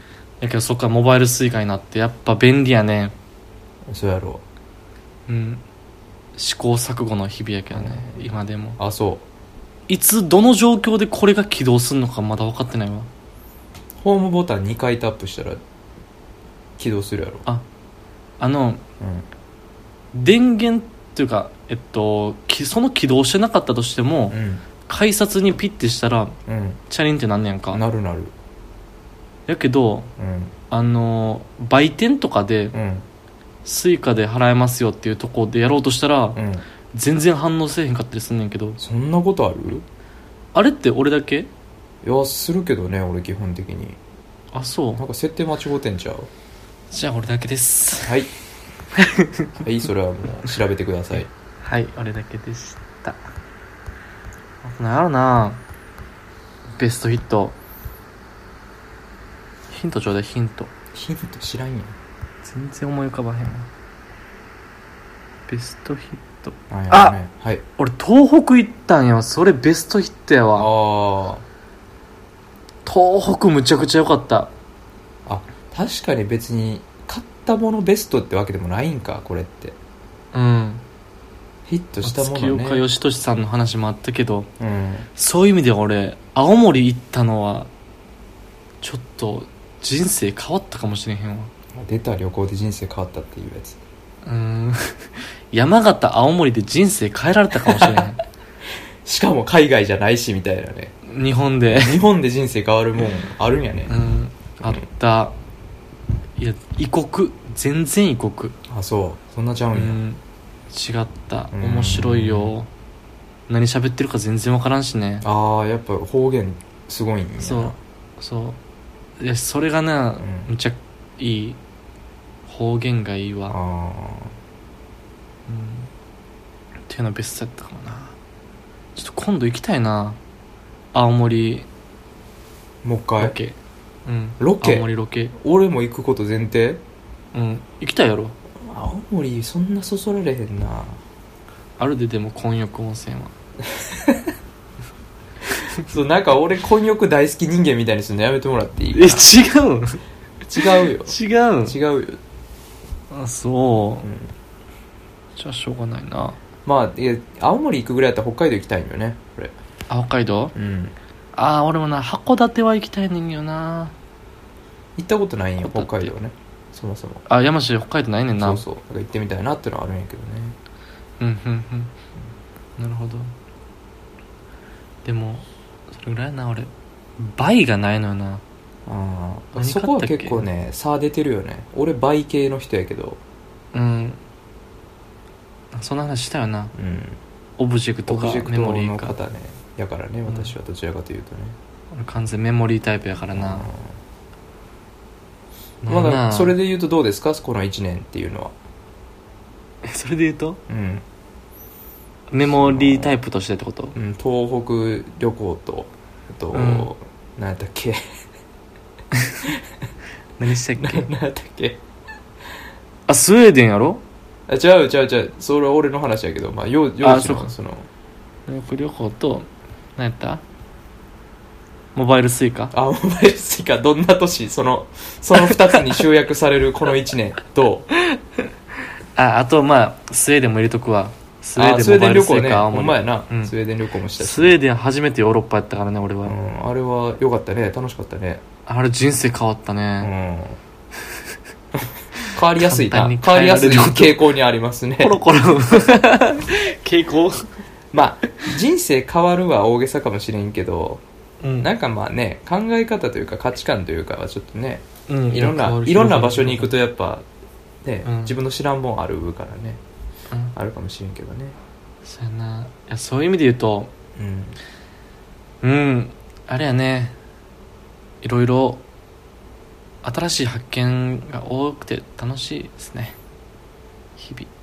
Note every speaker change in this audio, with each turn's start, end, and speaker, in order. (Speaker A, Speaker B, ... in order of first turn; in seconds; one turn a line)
Speaker A: 0.4-3.1
Speaker B: 3.9-4.4
Speaker A: 5.3-5.6
Speaker A: 6.4-8.8
Speaker B: 7.7-9.2
Speaker A: 9.9-13.1
Speaker B: 14.0-15.6
Speaker B: 16.8-17.5
Speaker A: 18.4-18.8
Speaker B: 19.0-19.3
Speaker A: 20.1-26.4
Speaker B: 24.3-24.6
Speaker B: 26.5-26.8
Speaker A: 26.9-27.8
Speaker B: 27.7-28.3
Speaker A: 29.5-30.1
Speaker B: 30.2-30.5
Speaker A: 30.7-32.7
Speaker B: 32.7-33.0
Speaker A: 33.6-36.4
Speaker B: 36.4-36.6
Speaker A: 36.9-38.8
Speaker B: 38.8-39.9
Speaker A: 40.5-41.5
Speaker B: 42.0-44.0
Speaker A: 44.5-45.0
Speaker B: 45.0-46.3
Speaker A: 46.9-48.1
Speaker B: 48.0-48.3
Speaker A: 49.0-49.5
Speaker B: 49.6-51.3
Speaker A: 51.6-53.2
Speaker A: 54.6-55.6
Speaker A: 56.8-57.6
Speaker A: 59.7-60.7
Speaker B: 60.9-62.0
Speaker A: 62.4-63.7
Speaker A: 65.5-67.2
Speaker B: 66.7-67.6
Speaker A: 67.8-70.7
Speaker B: 70.6-71.4
Speaker A: 72.9-74.5
Speaker B: 75.3-79.8
Speaker A: 80.3-80.8
Speaker B: 81.7-82.8
Speaker A: 82.0-84.5
Speaker B: 84.6-85.1
Speaker A: 85.2-87.7
Speaker A: 88.8-91.5
Speaker B: 91.8-93.8
Speaker A: 94.2-98.2
Speaker B: 97.7-98.1
Speaker B: 99.0-101.0
Speaker A: 101.0-102.0
Speaker B: 101.7-104.0
Speaker A: 103.9-105.4
Speaker A: 106.4-108.6
Speaker B: 108.7-110.0
Speaker A: 109.7-112.7
Speaker B: 111.5-112.5
Speaker A: 113.5-115.2
Speaker B: 115.2-117.8
Speaker A: 117.4-118.6
Speaker A: 119.2-121.6
Speaker B: 120.2-120.5
Speaker A: 122.5-123.6
Speaker B: 123.5-124.3
Speaker A: 125.5-125.9
Speaker A: 126.9-128.2
Speaker A: 128.9-130.2
Speaker A: 130.9-131.7
Speaker B: 132.8-133.4
Speaker A: 133.2-135.3
Speaker B: 134.4-136.8
Speaker A: 137.3-138.3
Speaker B: 138.6-141.0
Speaker A: 141.8-143.3
Speaker B: 143.9-144.2
Speaker B: 145.7-149.3
Speaker A: 148.9-150.0
Speaker B: 150.5-152.2
Speaker A: 151.1-151.8
Speaker A: 153.1-154.1
Speaker B: 154.0-154.3
Speaker A: 155.4-156.4
Speaker B: 156.7-159.5
Speaker A: 159.9-160.5
Speaker B: 160.6-160.9
Speaker A: 161.3-163.9
Speaker B: 165.0-167.2
Speaker A: 165.6-166.1
Speaker A: 167.3-168.6
Speaker B: 168.4-170.6
Speaker A: 171.2-171.9
Speaker A: 172.8-173.3
Speaker A: 175.1-178.4
Speaker B: 178.9-183.2
Speaker A: 179.6-180.5
Speaker A: 183.7-184.2
Speaker A: 185.7-186.7
Speaker B: 186.8-187.2
Speaker A: 187.6-189.2
Speaker B: 188.1-191.6
Speaker A: 190.3-190.5
Speaker A: 191.9-193.7
Speaker B: 193.3-193.9
Speaker A: 195.8-196.6
Speaker B: 195.9-198.5
Speaker A: 199.8-200.6
Speaker B: 200.7-201.0
Speaker A: 202.3-203.9
Speaker B: 202.4-203.2
Speaker B: 203.9-208.0
Speaker A: 206.5-206.9
Speaker A: 209.1-209.4
Speaker A: 210.4-211.1
Speaker B: 210.8-211.8
Speaker A: 213.1-214.0
Speaker B: 214.5-217.9
Speaker A: 217.0-217.5
Speaker A: 218.5-220.4
Speaker A: 221.9-222.7
Speaker B: 222.7-227.9
Speaker A: 229.2-233.5
Speaker B: 231.6-234.6
Speaker A: 234.2-236.3
Speaker B: 236.2-238.4
Speaker A: 238.7-240.1
Speaker B: 240.0-240.6
Speaker B: 242.3-245.2
Speaker A: 242.6-244.2
Speaker A: 245.0-247.5
Speaker B: 247.9-251.0
Speaker A: 251.4-251.7
Speaker B: 251.6-257.3
Speaker A: 255.1-256.7
Speaker B: 257.8-259.8
Speaker A: 258.1-258.4
Speaker B: 260.6-261.6
Speaker A: 262.0-263.9
Speaker B: 264.2-264.6
Speaker A: 265.6-267.2
Speaker A: 268.2-268.8
Speaker A: 270.0-273.2
Speaker A: 274.2-274.5